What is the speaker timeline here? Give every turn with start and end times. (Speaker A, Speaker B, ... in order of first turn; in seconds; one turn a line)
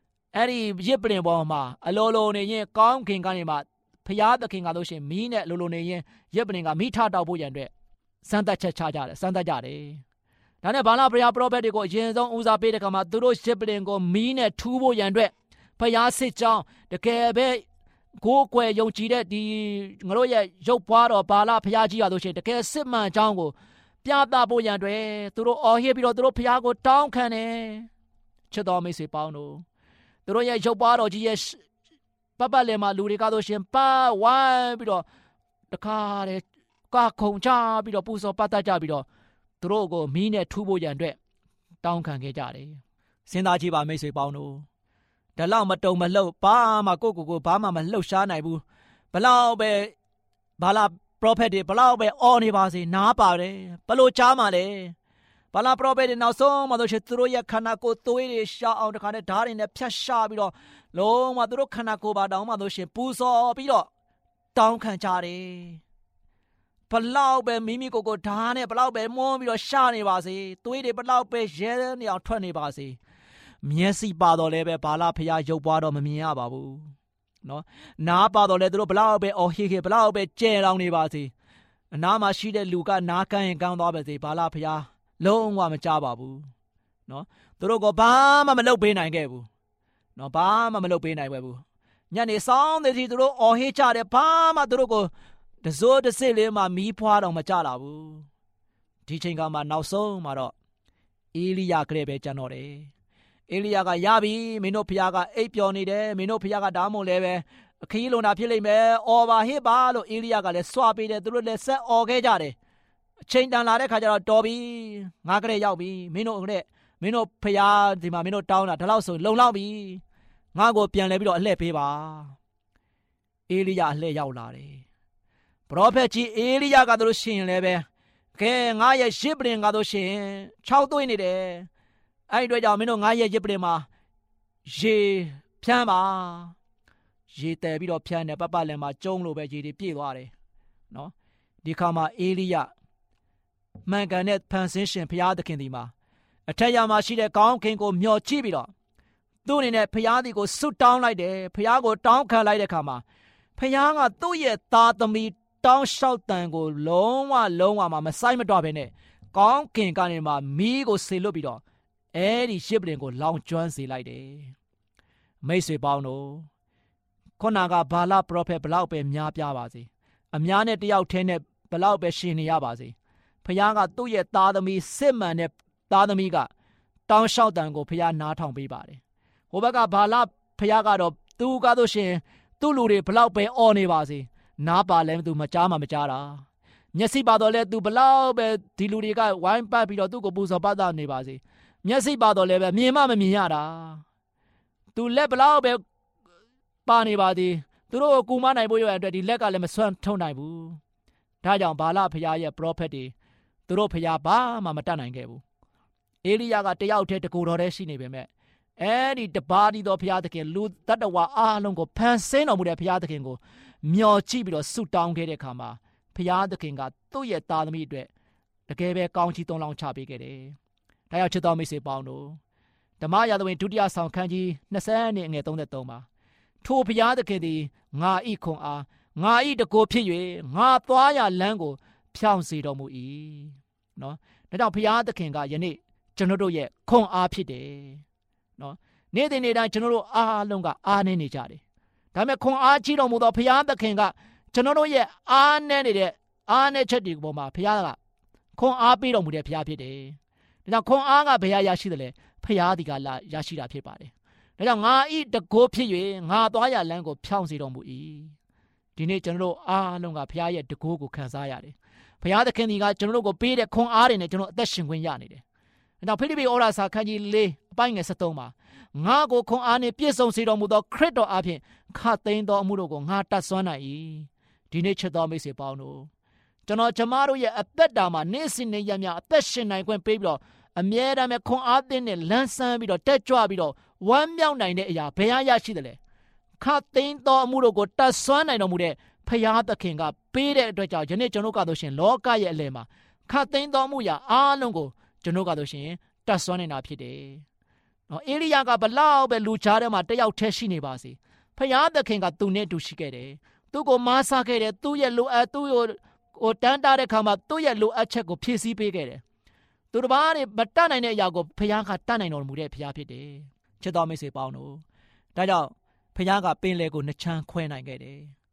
Speaker A: 0.3-7.7
Speaker A: 8.2-10.0
Speaker A: 10.6-17.6
Speaker A: 18.2-27.9
Speaker A: 28.5-29.6
Speaker A: 30.2-31.6
Speaker A: 32.4-35.0
Speaker A: 35.7-39.0
Speaker A: 39.6-41.2
Speaker A: 41.8-44.6
Speaker A: 45.4-49.9
Speaker A: 50.6-54.9
Speaker A: 55.5-63.9
Speaker A: 64.5-65.8
Speaker A: 66.9-73.0
Speaker A: 73.6-76.9
Speaker A: 77.4-81.3
Speaker A: 81.9-86.5
Speaker A: 87.1-89.5
Speaker A: 90.2-95.1
Speaker A: 95.6-98.2
Speaker A: 99.0-100.5
Speaker A: 101.3-102.9
Speaker A: 103.5-112.5
Speaker A: 113.3-120.0
Speaker A: 120.5-122.3
Speaker A: 123.5-124.8
Speaker A: 125.7-131.7
Speaker A: 132.3-133.9
Speaker A: 134.7-136.5
Speaker A: 137.3-140.3
Speaker A: 141.6-142.7
Speaker A: 143.8-145.9
Speaker A: 146.5-148.7
Speaker A: 149.4-153.0
Speaker A: 153.6-161.6
Speaker A: 162.1-164.5
Speaker A: 165.4-166.5
Speaker A: 167.4-176.5
Speaker A: 177.1-179.0
Speaker A: 179.5-194.0
Speaker A: 194.9-195.8
Speaker A: 196.8-200.8
Speaker A: 201.4-203.1
Speaker A: 203.7-205.4
Speaker A: 206.2-208.3
Speaker A: 208.8-218.1
Speaker A: 218.7-220.6
Speaker A: 221.1-222.4
Speaker A: 223.0-226.1
Speaker A: 226.6-238.0
Speaker A: 238.6-241.6
Speaker A: 242.1-248.0
Speaker A: 248.6-258.3
Speaker A: 259.0-265.4
Speaker A: 266.0-276.1
Speaker A: 276.6-286.0
Speaker A: 286.6-297.4
Speaker A: 298.1-309.2
Speaker A: 309.9-314.8
Speaker A: 315.3-318.3